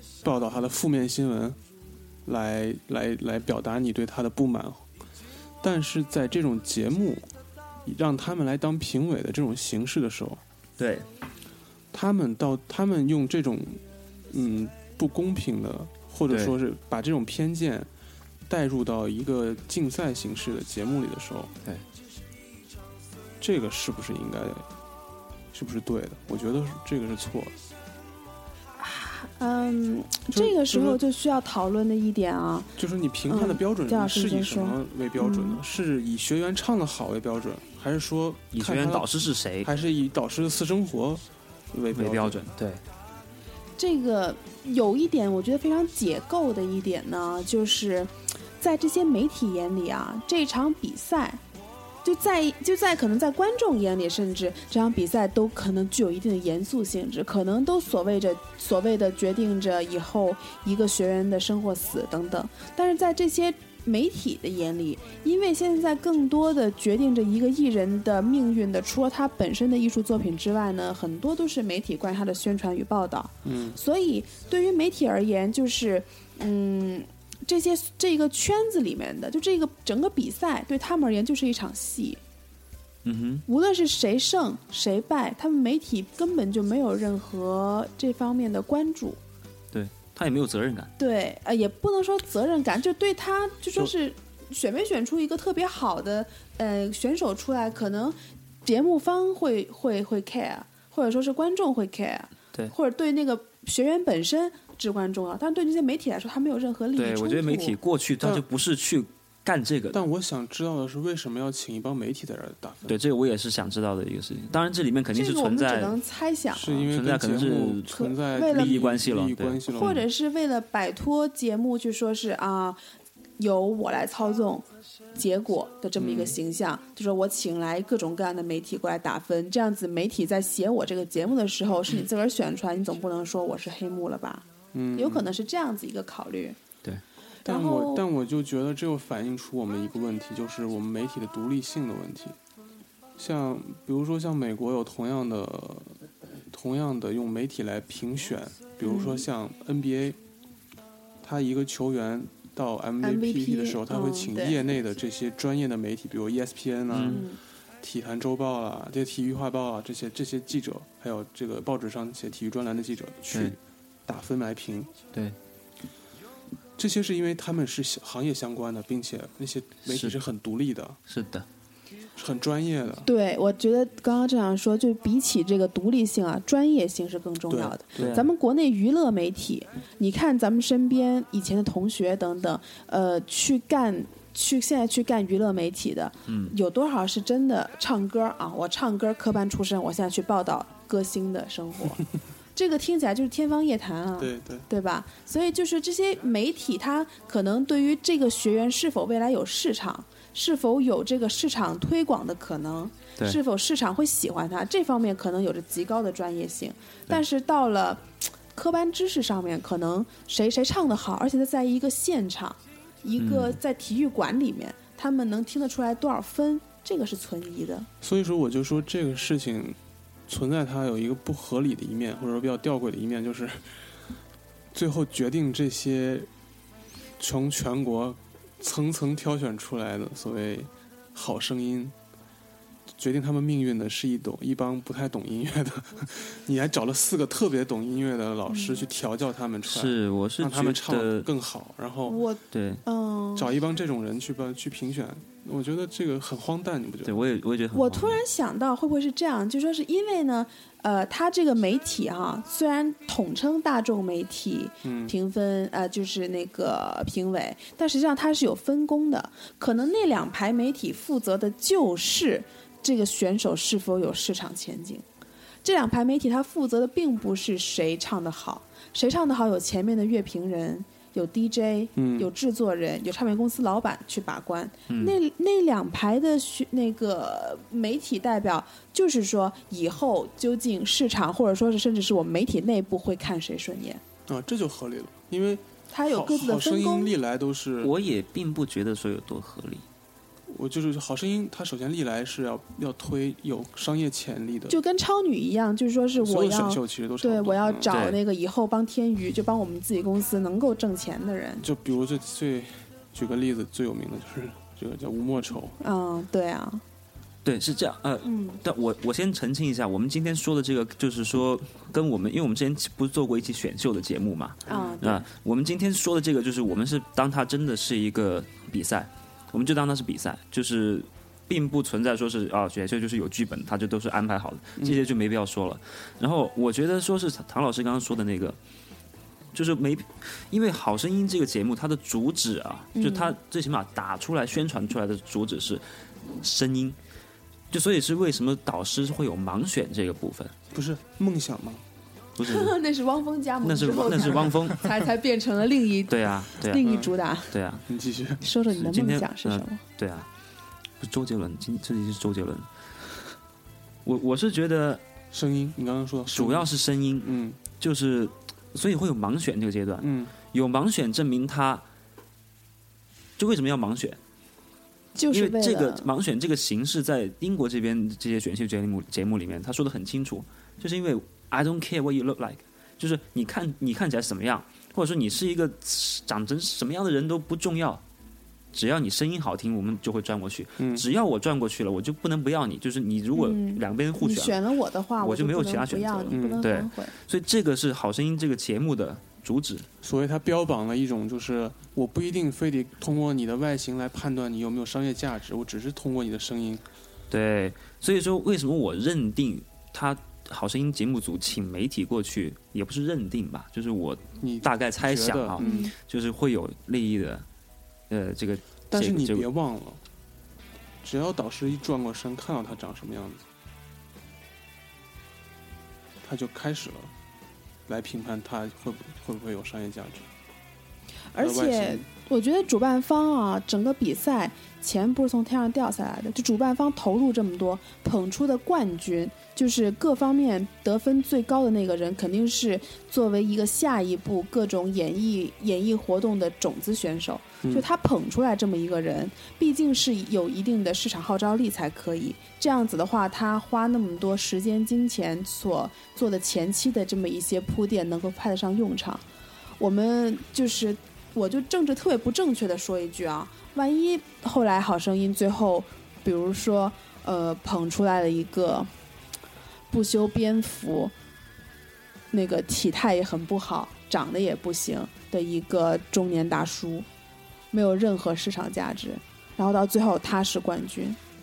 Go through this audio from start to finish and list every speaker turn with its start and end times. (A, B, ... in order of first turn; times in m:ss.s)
0:00.2-0:01.6 A
0:02.2-0:04.9 A
0:05.6-0:07.3 A
0:07.8-0:10.4 A
0:10.8-0:11.0 B
0:11.9-0:17.9 A
0:16.3-0:16.5 B
0:18.5-0:21.5 A
0:23.4-0:24.6 A
0:25.5-0:27.5 A
0:28.8-0:32.7 C
0:30.3-0:31.0 A
0:32.8-0:39.1 A
0:33.3-0:35.6 C
0:38.5-0:39.7 B
0:39.6-0:42.4 A
0:41.9-0:42.8 B
0:43.8-0:51.4 C
0:52.0-1:22.2 C
1:13.4-1:13.8 A
1:23.0-1:23.4 B
1:23.5-1:29.2 C
1:29.7-1:30.9 B
1:31.0-1:47.8 C
1:47.0-1:50.0 B
1:49.9-1:53.0 A
1:52.9-1:56.0 B
1:55.1-1:56.8 C
1:56.5-2:00.0 A
1:56.7-2:00.0 B
1:57.9-1:58.9 C
1:59.7-2:02.8 C
2:03.4-2:16.6 C
2:06.0-2:06.4 A
2:14.7-2:15.3 A
2:17.4-2:18.0 C
2:17.4-2:22.4 A
2:23.2-2:30.2 A
2:28.8-2:29.2 C
2:31.2-2:37.2 A
2:33.0-2:34.6 C
2:36.9-2:37.2 B
2:37.0-2:37.4 C
2:37.8-2:44.9 A
2:43.3-2:43.6 B
2:46.8-2:51.0 A
2:49.8-2:50.2 B
2:51.1-2:51.4 B
2:52.2-2:53.1 A
2:53.0-3:12.0 C
2:57.5-2:58.2 A
2:58.0-2:58.3 B
3:06.2-3:06.5 B
3:12.5-3:37.9 C
3:14.2-3:14.7 A
3:33.2-3:33.6 B
3:38.0-3:43.7 A
3:44.7-3:46.3 A
3:47.2-3:51.9 A
3:52.9-4:02.2 A
3:58.5-3:58.8 C
3:59.7-4:01.3 B
4:02.0-4:03.5 C
4:02.5-4:02.8 B
4:03.4-4:07.2 A
4:07.0-4:08.2 B
4:07.7-4:25.0 C
4:14.8-4:15.1 A
4:25.6-4:44.0 C
4:32.0-4:32.3 A
4:34.9-4:35.2 B
4:44.3-4:47.9 A
4:45.9-4:47.1 C
4:47.8-4:49.8 B
4:50.5-4:54.8 A
4:54.7-5:01.6 C
4:56.2-4:58.0 A
4:57.9-4:58.2 B
5:01.6-5:05.8 A
5:05.8-5:06.8 C
5:07.4-5:28.6 B
5:08.2-5:08.6 C
5:14.7-5:14.9 A
5:14.7-5:15.2 C
5:29.5-5:35.8 B
5:32.9-5:33.4 C
5:36.4-5:37.0 B
5:37.7-5:40.5 B
5:40.7-5:41.8 A
5:42.4-5:42.7 B
5:42.4-5:47.6 C
5:43.6-5:44.8 B
5:46.1-5:46.8 B
5:46.8-5:47.1 A
5:47.5-5:47.8 B
5:47.9-5:48.4 A
5:48.4-5:49.8 C
5:48.7-5:50.3 B
5:51.0-5:52.7 B
5:54.0-5:55.0 B
5:55.3-5:56.7 A
5:56.3-6:01.8 B
5:57.2-5:57.6 A
6:00.0-6:00.3 A
6:03.4-6:04.2 B
6:05.2-6:06.1 C
6:05.3-6:18.0 B
6:18.7-6:24.6 B
6:20.8-6:21.0 A
6:23.3-6:27.1 C
6:25.2-6:29.9 B
6:26.3-6:26.6 A
6:30.0-6:36.8 A
6:37.3-6:47.4 B
6:44.4-6:45.7 A
6:45.6-6:45.9 C
6:48.1-6:49.5 B
6:48.9-6:50.0 A
6:51.0-6:53.4 A
6:56.2-6:57.1 A
6:57.9-7:00.3 A
7:01.3-7:29.2 C
7:01.4-7:02.0 A
7:29.8-7:38.9 C
7:39.9-7:41.1 C
7:42.3-7:47.1 C
7:47.7-7:51.2 C